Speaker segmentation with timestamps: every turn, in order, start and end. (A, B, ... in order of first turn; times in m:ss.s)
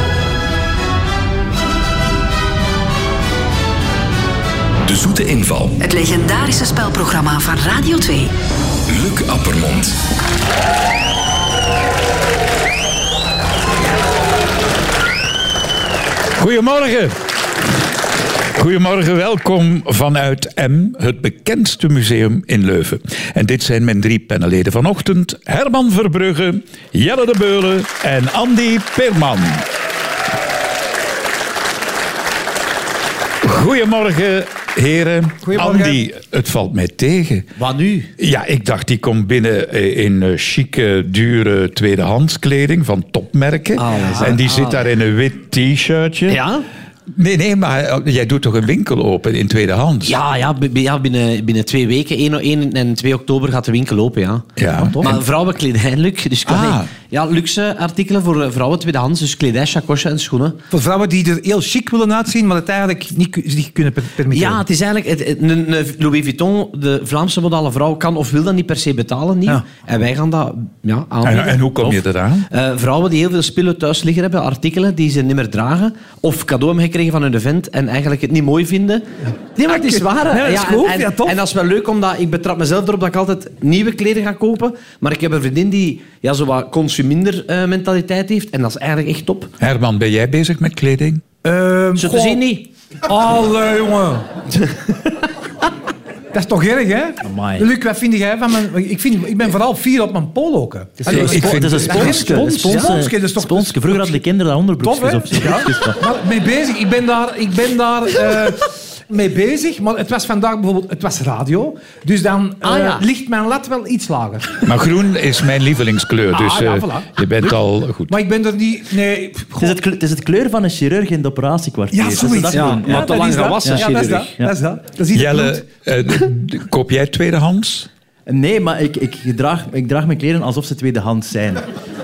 0:04.8-0:05.8 A
0:05.8-0:08.3 B
0:08.9-0:10.0 A
0:16.4-0:17.2 C
0:18.5-0:29.7 C
0:33.4-0:37.5 C
0:35.4-0:36.0 D
0:37.6-0:38.1 E
0:38.2-0:46.4 C
0:43.8-0:44.8 E
0:46.3-0:46.6 E
0:47.1-0:50.2 C
0:50.0-1:00.6 E
0:54.6-0:55.2 C
0:56.4-0:56.9 C
1:00.7-1:04.6 D
1:04.3-1:19.0 E
1:11.2-1:12.5 C
1:19.6-1:29.5 E
1:19.7-1:21.4 D
1:29.6-1:31.2 C
1:31.4-1:32.4 D
1:32.0-1:32.6 E
1:33.1-1:34.3 D
1:36.3-1:44.2 D
1:37.2-1:37.7 F
1:41.0-1:46.0 F
1:41.1-1:42.5 C
1:42.7-1:42.9 E
1:44.8-1:54.6 D
1:52.6-1:53.0 E
1:54.6-1:58.2 C
1:56.3-1:57.5 D
1:58.1-1:59.8 D
1:59.6-2:04.5 F
2:01.9-2:05.6 D
2:02.5-2:04.3 E
2:05.1-2:07.9 C
2:08.3-2:11.6 F